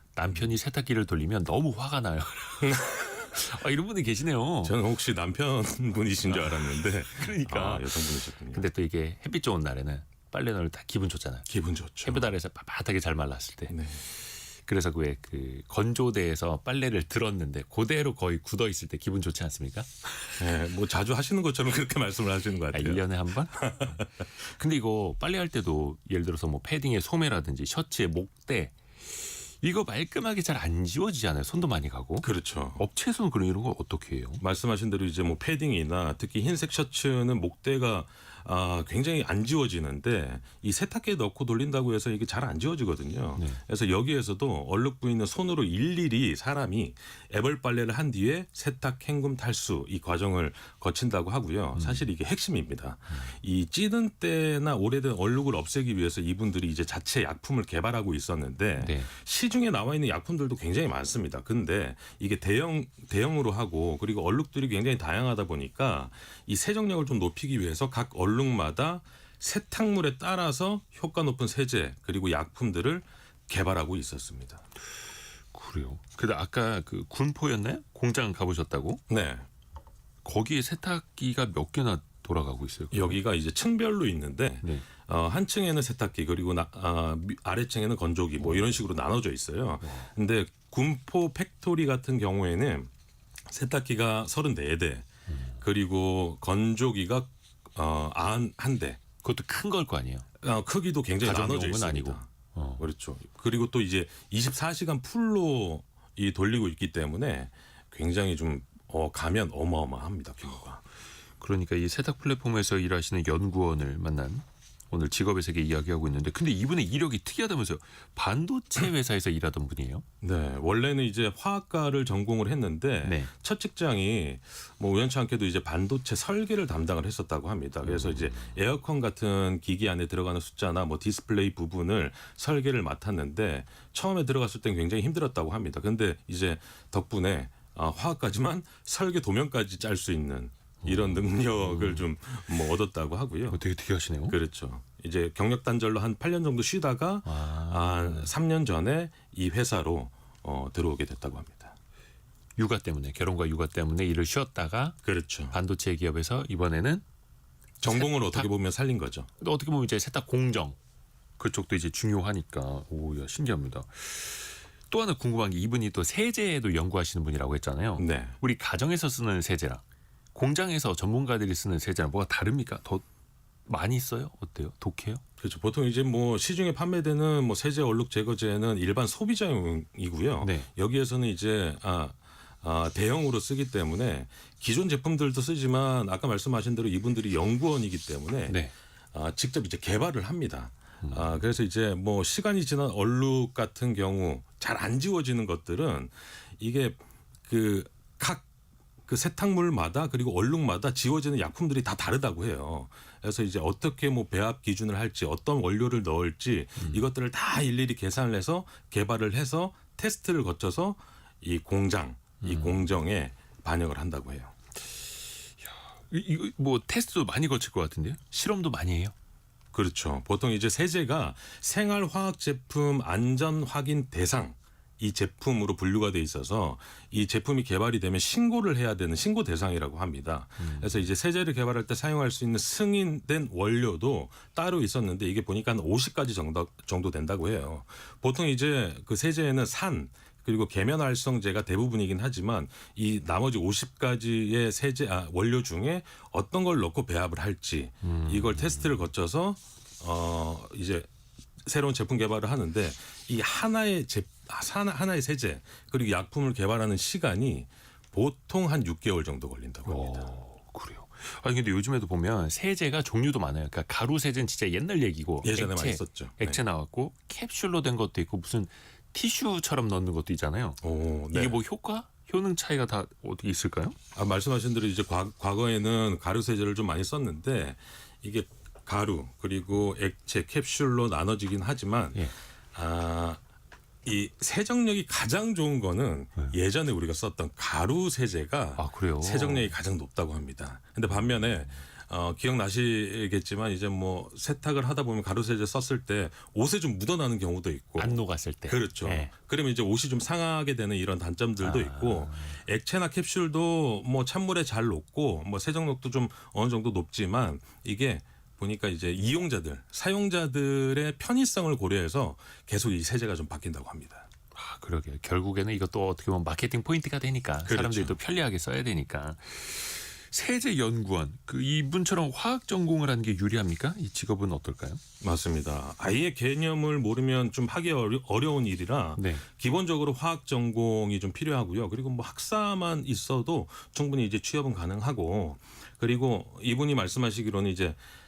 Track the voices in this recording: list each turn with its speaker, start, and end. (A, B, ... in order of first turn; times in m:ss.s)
0:00.2-0:04.8 A
0:02.7-0:03.1 B
0:04.6-0:08.7 B
0:06.3-0:11.5 A
0:11.5-0:12.3 B
0:12.0-0:20.3 A
0:13.7-0:14.0 B
0:20.4-0:24.1 B
0:22.7-0:34.4 A
0:32.2-0:32.8 B
0:34.4-1:14.6 B
0:43.4-0:43.6 A
0:51.8-0:52.1 A
0:58.8-0:59.1 A
1:15.5-1:19.0 A
1:19.1-1:19.5 B
1:20.2-1:23.2 A
1:22.9-1:32.9 B
1:28.4-1:28.8 A
1:29.8-1:30.1 A
1:33.5-1:35.1 B
1:35.3-1:35.6 A
1:35.6-1:39.0 B
1:39.2-1:40.3 A
1:40.4-1:50.8 B
1:41.2-1:42.8 A
1:51.4-2:00.1 A
2:00.2-2:23.6 B
2:03.0-2:03.3 A
2:07.8-2:08.6 A
2:20.8-2:22.1 A
2:23.5-2:24.4 A
2:24.3-2:31.8 B
2:27.2-2:28.3 A
2:32.6-2:35.0 A
2:35.0-2:35.6 B
2:35.5-2:37.0 A
2:37.8-2:39.3 B
2:37.8-2:38.5 A
2:39.4-2:40.8 A
2:41.4-2:49.8 A
2:48.0-2:48.4 B
2:50.4-2:53.0 A
2:53.7-2:55.2 A
2:55.4-3:08.6 B
3:00.4-3:00.7 A
3:08.5-3:08.7 A
3:09.1-3:18.5 B
3:11.0-3:11.4 A
3:19.1-3:34.5 B
3:26.8-3:27.0 A
3:32.4-3:32.9 A
3:35.6-3:39.1 A
3:39.7-4:11.1 B
3:50.6-3:51.1 A
4:08.0-4:09.0 A
4:11.6-4:20.3 B
4:19.9-4:30.8 A
4:25.4-4:26.6 B
4:30.8-4:31.6 B
4:31.3-4:34.0 A
4:34.2-4:43.4 B
4:44.0-5:14.3 B
4:48.8-4:49.7 A
4:51.1-4:51.8 A
4:58.0-4:59.3 A
5:01.6-5:02.6 A
5:14.6-5:25.0 A
5:17.7-5:18.2 B
5:25.2-5:38.0 B
5:29.2-5:29.5 A